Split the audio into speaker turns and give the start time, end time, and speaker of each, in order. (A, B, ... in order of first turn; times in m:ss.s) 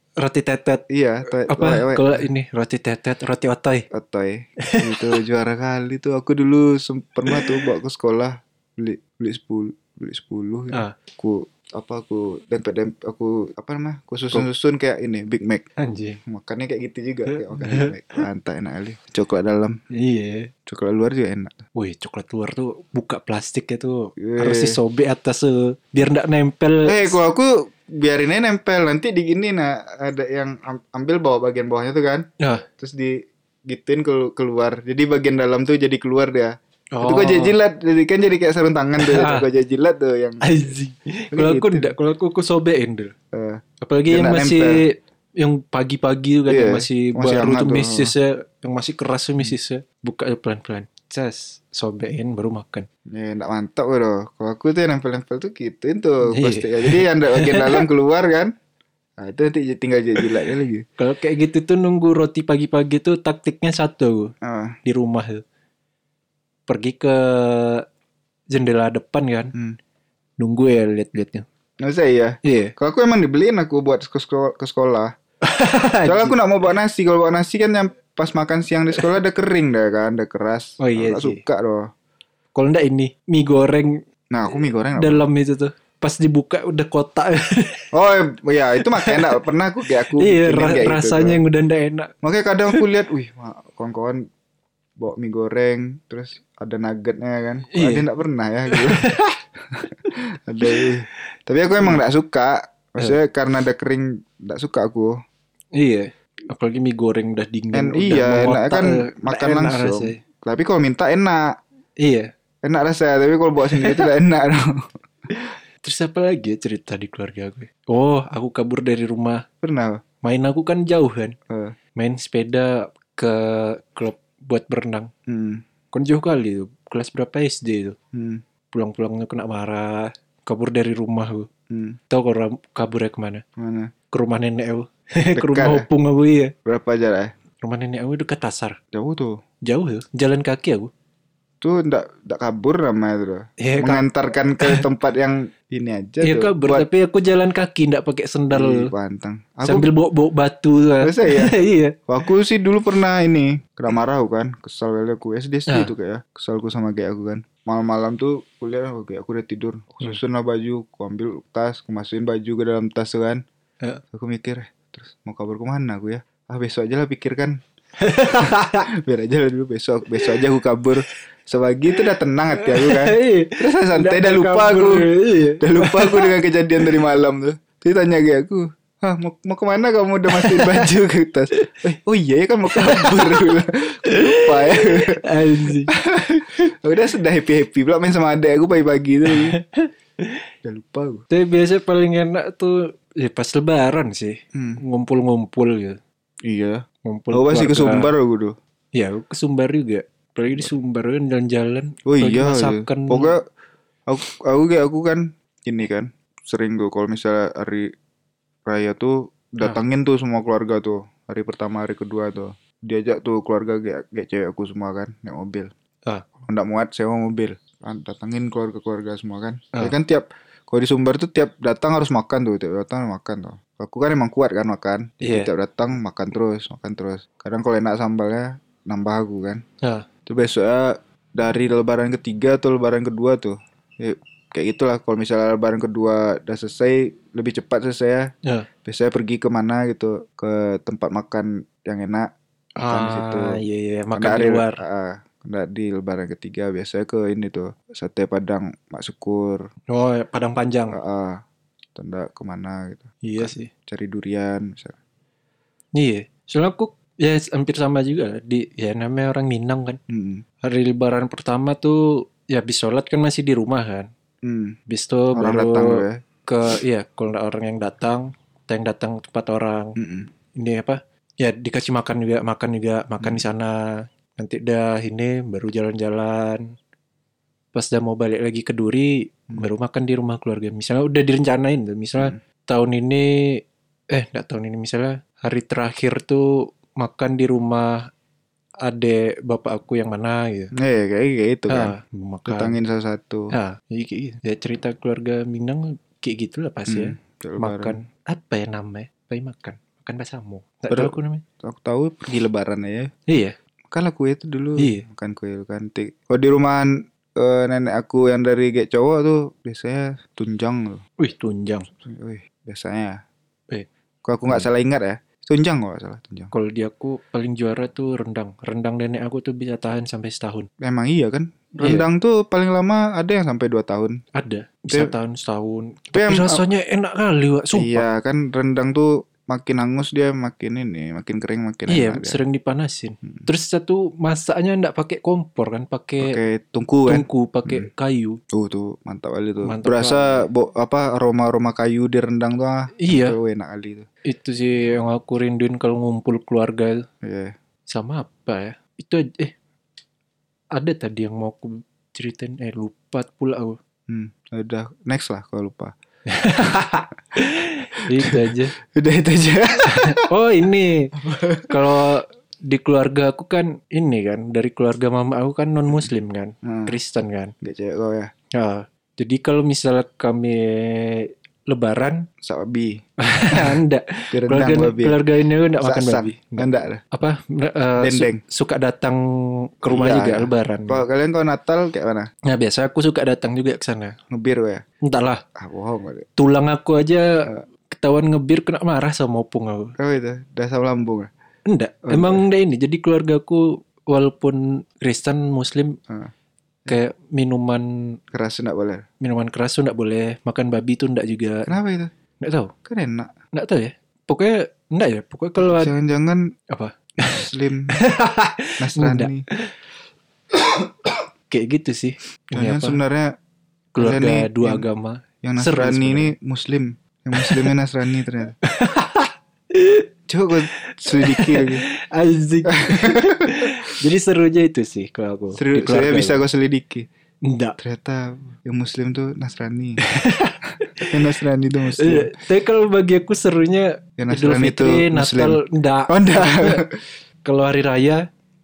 0:00.2-0:00.8 A
0:00.9-0:02.3 B
0:01.5-0:03.9 A
0:03.9-0:15.7 B
0:04.7-0:05.1 A
0:07.3-0:07.6 A
0:15.8-0:16.2 A
0:16.3-0:19.8 B
0:17.3-0:18.0 A
0:19.9-0:20.5 A
0:20.7-0:21.6 B
0:21.8-0:27.2 A
0:24.2-0:24.8 B
0:26.9-0:32.3 B
0:32.4-0:32.6 A
0:32.8-0:40.7 B
0:36.9-0:37.6 A
0:39.0-0:39.5 A
0:40.4-0:43.1 A
0:41.3-0:41.9 B
0:43.3-0:44.8 B
0:43.8-0:52.9 A
0:46.5-0:48.1 B
0:53.1-0:58.5 B
0:56.2-0:57.8 A
0:59.2-1:00.8 B
1:01.0-1:04.3 A
1:04.4-1:04.8 B
1:04.8-1:05.4 A
1:06.7-1:07.9 A
1:08.5-1:09.5 A
1:10.4-1:11.4 A
1:11.8-1:15.2 B
1:12.4-1:12.7 A
1:15.4-1:16.4 A
1:16.0-1:21.9 B
1:20.8-1:21.4 A
1:22.6-1:24.0 A
1:24.3-1:25.2 B
1:25.0-1:27.9 A
1:27.9-1:31.4 B
1:29.0-1:29.4 A
1:30.1-1:32.1 A
1:32.2-1:34.3 B
1:35.0-1:39.2 B
1:37.7-1:38.1 A
1:38.7-1:39.4 A
1:39.7-1:45.2 B
1:40.7-1:41.2 A
1:41.8-1:42.0 A
1:45.8-1:50.2 A
1:47.7-1:51.6 B
1:52.0-1:52.3 A
1:52.6-1:54.9 B
1:53.8-1:54.1 A
1:55.8-1:59.4 A
1:59.6-2:00.0 B
2:00.2-2:01.4 A
2:01.5-2:01.8 B
2:02.0-2:05.1 A
2:05.3-2:05.6 B
2:05.9-2:08.0 A
2:08.1-2:08.4 B
2:08.7-2:11.5 A
2:11.7-2:12.0 B
2:12.1-2:13.4 A
2:13.6-2:13.9 B
2:14.1-2:16.5 A
2:15.4-2:15.9 B
2:16.7-2:17.3 B
2:17.6-2:18.8 A
2:18.9-2:19.4 B
2:19.6-2:20.9 A
2:21.6-2:26.9 B
2:23.6-2:24.0 A
2:24.6-2:24.8 A
2:26.2-2:28.9 A
2:28.5-2:29.9 B
2:29.6-2:32.0 A
2:31.0-2:31.6 B
2:32.1-2:43.4 B
2:44.1-2:47.6 B
2:48.0-2:48.9 A
2:48.3-3:09.6 B
2:52.6-2:56.9 A
3:00.3-3:00.9 A
3:02.7-3:03.5 A
3:04.1-3:05.9 A
3:09.3-3:10.4 A
3:10.6-3:11.2 B
3:11.3-3:16.0 A
3:14.5-3:14.8 B
3:16.4-3:18.6 B
3:17.0-3:18.1 A
3:18.9-3:23.3 A
3:22.1-3:23.4 B
3:24.1-3:27.9 B
3:28.7-3:35.7 B
3:36.5-3:49.6 B
3:45.2-3:45.5 A
3:50.3-3:58.3 B
3:58.8-4:02.3 B
4:02.8-4:04.8 A
4:02.8-4:03.6 B
4:04.2-4:09.6 B
4:09.9-4:11.0 A
4:10.9-4:11.4 B
4:12.0-4:15.0 B
4:13.2-4:13.7 A
4:16.0-4:20.0 A
4:20.1-4:20.4 B
4:20.6-4:24.1 A
4:24.4-4:24.8 B
4:24.9-4:30.0 A
4:25.4-4:26.2 B
4:30.0-4:30.3 B
4:30.6-4:36.7 A
4:37.7-4:48.1 A
4:48.8-4:50.7 A
4:50.8-4:52.0 B
4:51.7-4:52.8 A
4:52.5-4:53.5 B
4:53.5-5:01.4 A
4:56.9-4:58.0 B
5:00.9-5:03.1 B
5:03.3-5:03.6 A
5:03.9-5:11.0 B
5:04.8-5:05.0 A
5:11.2-5:11.9 A
5:12.0-5:13.2 B
5:14.2-5:16.5 B
5:16.5-5:20.7 A
5:20.8-5:24.2 B
5:21.8-5:22.0 A
5:24.4-5:28.0 A
5:26.2-5:26.6 B
5:27.7-5:32.4 B
5:31.9-5:36.4 A
5:36.2-5:37.9 B
5:37.1-5:38.4 A
5:38.5-5:44.1 B
5:39.6-5:40.5 A
5:43.0-5:43.4 A
5:44.3-5:47.0 A
5:47.2-5:47.5 B
5:47.9-5:49.5 A
5:50.7-5:53.8 A
5:54.1-5:55.9 B
5:56.3-5:58.7 A
5:58.2-6:00.3 B
5:59.9-6:01.1 A
6:01.2-6:02.0 B
6:01.7-6:07.5 A
6:06.6-6:07.0 B
6:07.6-6:08.3 B
6:08.5-6:12.3 A
6:12.4-6:13.7 B
6:13.2-6:21.0 A
6:14.3-6:15.2 B
6:15.8-6:17.0 B
6:18.0-6:18.4 B
6:19.9-6:22.3 B
6:22.5-6:24.2 A
6:24.3-6:24.8 B
6:25.0-6:25.4 A
6:25.6-6:26.3 B
6:26.4-6:29.9 A
6:30.0-6:31.3 B
6:31.7-6:36.0 A
6:32.1-6:32.4 B
6:36.9-6:38.2 A
6:38.3-6:39.0 B
6:39.2-6:41.7 A
6:41.7-6:42.1 B
6:42.4-6:42.7 A
6:42.8-6:43.3 B
6:43.5-6:45.9 A
6:45.6-6:46.5 B
6:46.7-6:49.7 A
6:47.2-6:48.0 B
6:48.8-6:49.4 B
6:51.5-6:53.0 A
6:52.6-6:53.3 B
6:54.0-6:56.3 A
6:54.0-6:54.8 B
6:55.4-6:58.6 B
6:57.4-6:57.7 A
6:58.6-7:00.1 A
7:00.3-7:01.8 B
7:01.2-7:06.4 A
7:02.7-7:03.6 B
7:05.6-7:07.1 B
7:07.4-7:07.8 A
7:07.8-7:10.0 B
7:10.0-7:11.1 A
7:11.1-7:12.3 B
7:12.0-7:16.8 A
7:14.2-7:17.0 B
7:17.4-7:18.2 A